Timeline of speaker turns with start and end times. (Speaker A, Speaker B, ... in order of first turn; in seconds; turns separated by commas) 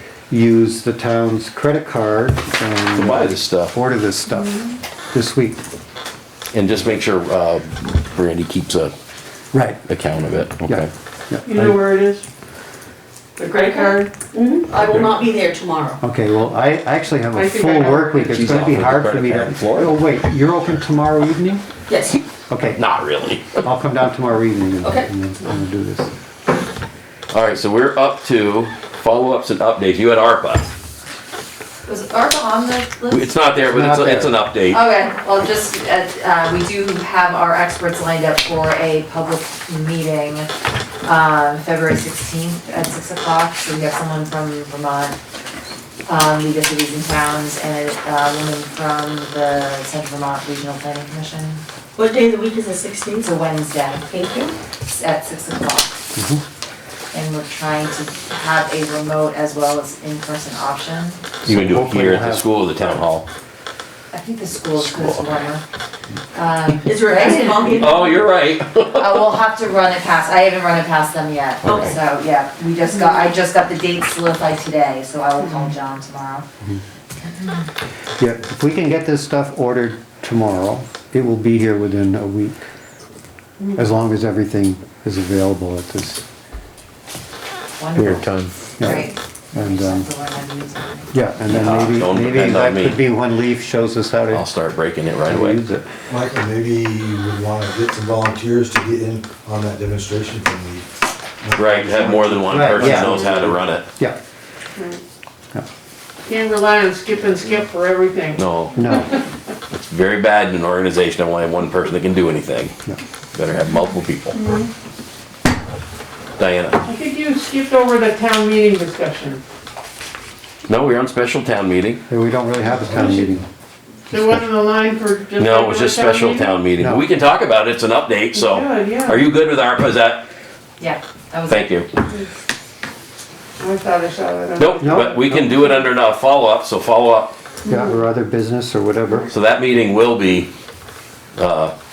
Speaker A: 0.3-4.6, Speaker B: 2.9-3.8, Speaker C: 4.3-4.7, Speaker A: 5.1-5.6, Speaker B: 6.5-8.9, Speaker A: 9.5-9.8, Speaker B: 9.9-10.9, Speaker A: 10.7-11.8, Speaker C: 11.4-12.2, Speaker C: 13.4-14.1, Speaker D: 13.5-16.0, Speaker A: 16.0-21.6, Speaker C: 17.3-18.4, Speaker B: 18.3-20.0, Speaker D: 21.9-22.2, Speaker A: 22.5-22.9, Speaker B: 22.7-23.6, Speaker A: 23.6-26.1, Speaker B: 27.3-30.7, Speaker E: 31.9-33.4, Speaker B: 33.1-34.8, Speaker A: 33.6-34.3, Speaker E: 34.7-40.5, Speaker E: 41.0-45.2, Speaker E: 46.1-51.6, Speaker D: 52.0-53.3, Speaker E: 53.2-56.0, Speaker A: 56.2-56.4, Speaker E: 57.1-61.2, Speaker A: 61.4-62.5, Speaker B: 61.5-63.3, Speaker E: 64.1-65.6, Speaker B: 64.8-65.3, Speaker E: 66.3-68.0, Speaker D: 66.9-67.9, Speaker B: 67.2-69.3, Speaker E: 69.0-76.5, Speaker B: 71.6-72.0, Speaker E: 77.2-77.7, Speaker A: 78.2-82.6, Speaker A: 83.7-86.2, Speaker E: 87.8-91.2, Speaker B: 88.0-88.5, Speaker A: 88.8-90.1, Speaker A: 91.1-94.5, Speaker B: 91.5-93.0, Speaker B: 94.3-95.6, Speaker A: 95.3-95.8, Speaker F: 96.1-100.9, Speaker F: 101.4-103.0, Speaker B: 101.5-103.8, Speaker A: 102.4-104.2, Speaker C: 106.3-108.5, Speaker B: 108.4-109.0, Speaker A: 108.8-109.1, Speaker B: 109.7-112.7, Speaker B: 113.3-114.4, Speaker C: 114.3-114.7, Speaker B: 116.4-116.8, Speaker C: 116.8-119.4, Speaker B: 120.7-122.0, Speaker A: 122.1-123.4, Speaker F: 122.6-123.4, Speaker C: 124.1-126.6, Speaker B: 125.4-130.3, Speaker A: 126.8-127.0, Speaker C: 128.3-129.3, Speaker E: 130.8-131.7, Speaker B: 131.5-131.9, Speaker C: 133.6-135.2, Speaker B: 134.6-137.3, Speaker A: 134.8-135.5, Speaker C: 137.7-138.0, Speaker A: 137.7-139.3, Speaker B: 139.3-140.5, Speaker B: 141.4-141.7